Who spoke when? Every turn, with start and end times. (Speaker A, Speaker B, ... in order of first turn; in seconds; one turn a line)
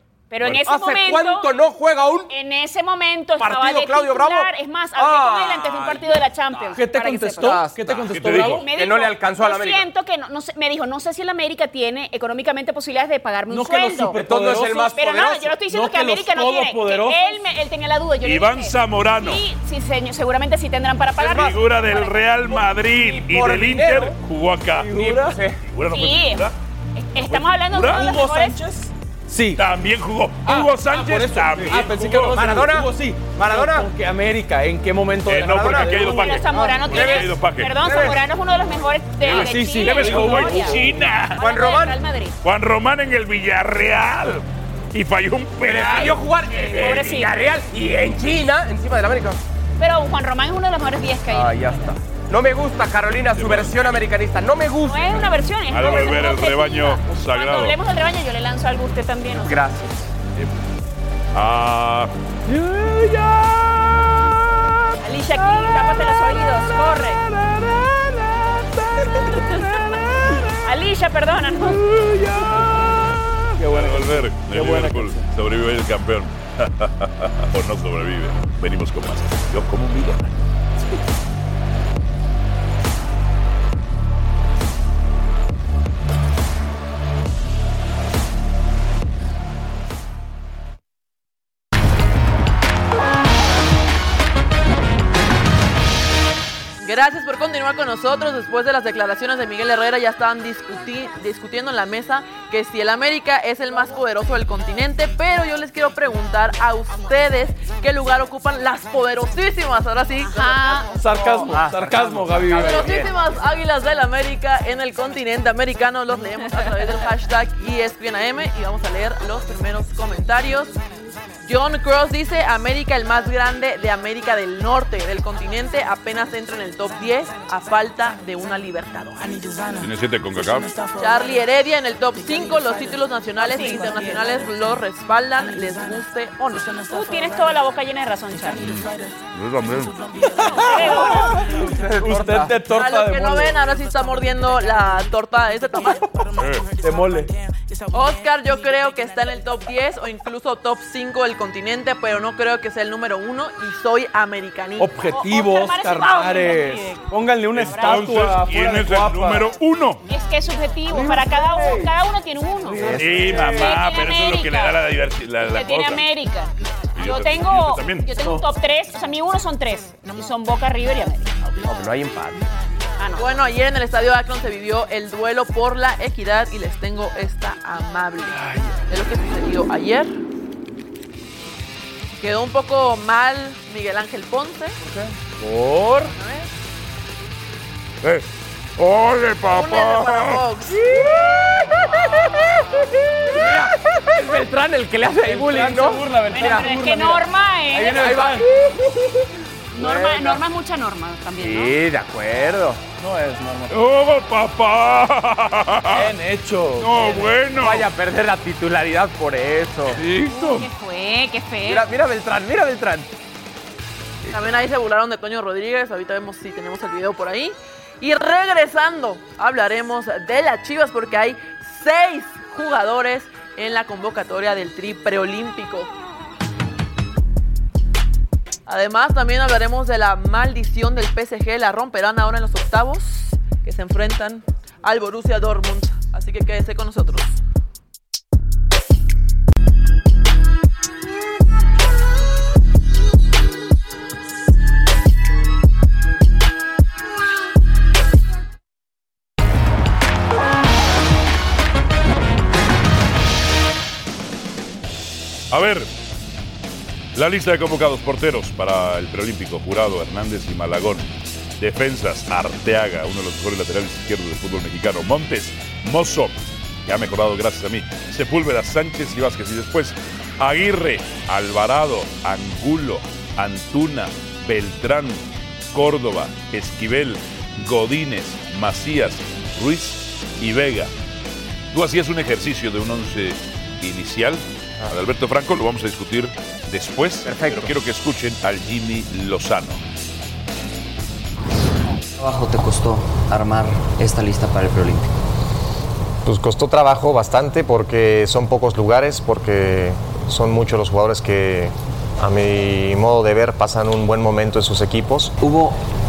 Speaker A: 0.3-1.5
Speaker B: 0.6-2.3
Speaker A: 2.3-7.7
Speaker B: 3.4-6.8
Speaker C: 6.7-8.7
Speaker B: 7.4-9.9
Speaker D: 8.1-8.7
Speaker A: 8.3-14.2
Speaker C: 13.5-14.9
Speaker B: 14.2-15.6
Speaker A: 14.9-22.2
Speaker C: 15.7-17.4
Speaker D: 18.2-19.4
Speaker B: 21.2-21.6
Speaker D: 21.3-24.9
Speaker B: 22.8-24.2
Speaker C: 24.8-25.4
Speaker B: 24.9-25.6
Speaker D: 25.6-26.6
Speaker A: 25.9-28.6
Speaker C: 27.3-29.7
Speaker D: 27.7-28.1
Speaker D: 29.6-32.4
Speaker C: 30.4-36.4
Speaker B: 32.3-33.9
Speaker D: 35.3-37.8
Speaker B: 35.4-38.2
Speaker A: 35.9-40.8
Speaker D: 39.2-41.4
Speaker C: 39.3-41.1
Speaker A: 41.3-42.4
Speaker B: 41.4-42.0
Speaker D: 42.4-47.2
Speaker B: 45.6-49.4
Speaker A: 46.7-47.5
Speaker A: 49.8-51.8
Speaker B: 51.3-55.2
Speaker D: 53.3-54.0
Speaker A: 54.8-59.6
Speaker D: 55.7-57.8
Speaker B: 59.3-60.1
Speaker D: 61.3-62.1
Speaker C: 62.7-63.2
Speaker D: 63.3-63.8
Speaker A: 65.0-67.2
Speaker A: 69.4-69.7
Speaker A: 70.6-71.8
Speaker D: 71.8-80.4
Speaker C: 73.6-75.3
Speaker E: 96.8-111.2
Speaker A: 110.2-111.0
Speaker C: 111.0-113.1
Speaker B: 111.2-113.1
Speaker E: 112.5-120.8
Speaker E: 121.4-129.7
Speaker D: 129.8-130.7
Speaker E: 130.9-136.9
Speaker A: 133.5-133.8
Speaker A: 136.9-138.7
Speaker D: 139.4-139.9
Speaker A: 140.4-141.5
Speaker C: 140.6-143.6
Speaker B: 141.7-142.6
Speaker E: 142.7-146.2
Speaker D: 146.4-146.7
Speaker C: 146.7-147.3
Speaker E: 147.9-154.9
Speaker C: 154.8-159.6
Speaker A: 155.1-157.1
Speaker D: 157.5-160.0
Speaker A: 157.6-158.1
Speaker A: 160.1-164.8
Speaker C: 160.9-161.9
Speaker C: 162.7-163.7
Speaker B: 162.8-163.2
Speaker D: 162.9-166.0
Speaker A: 165.5-171.3
Speaker D: 166.9-168.1
Speaker B: 171.6-172.5
Speaker A: 173.0-173.2
Speaker E: 173.2-180.2
Speaker C: 178.4-178.7
Speaker E: 182.2-184.8
Speaker B: 184.8-185.2
Speaker C: 185.4-186.1
Speaker E: 186.2-186.5
Speaker D: 188.8-190.4
Speaker E: 189.4-190.9
Speaker B: 193.3-196.7
Speaker C: 193.3-193.6
Speaker C: 195.2-198.4
Speaker A: 196.3-198.3
Speaker B: 197.8-199.2
Speaker A: 199.7-201.8
Speaker B: 199.8-200.4
Speaker B: 201.4-202.8
Speaker C: 203.0-203.8
Speaker D: 203.7-206.1
Speaker C: 205.9-207.2
Speaker D: 206.8-207.9
Speaker B: 207.6-210.0
Speaker D: 209.9-210.7
Speaker A: 210.3-211.8
Speaker B: 211.7-213.1
Speaker E: 214.3-225.9
Speaker E: 228.7-237.4
Speaker D: 255.5-255.9
Speaker D: 257.1-261.1
Speaker D: 261.6-280.9
Speaker D: 281.7-289.8
Speaker B: 287.2-287.7
Speaker F: 292.2-295.1
Speaker G: 296.2-305.3
Speaker F: 305.4-305.8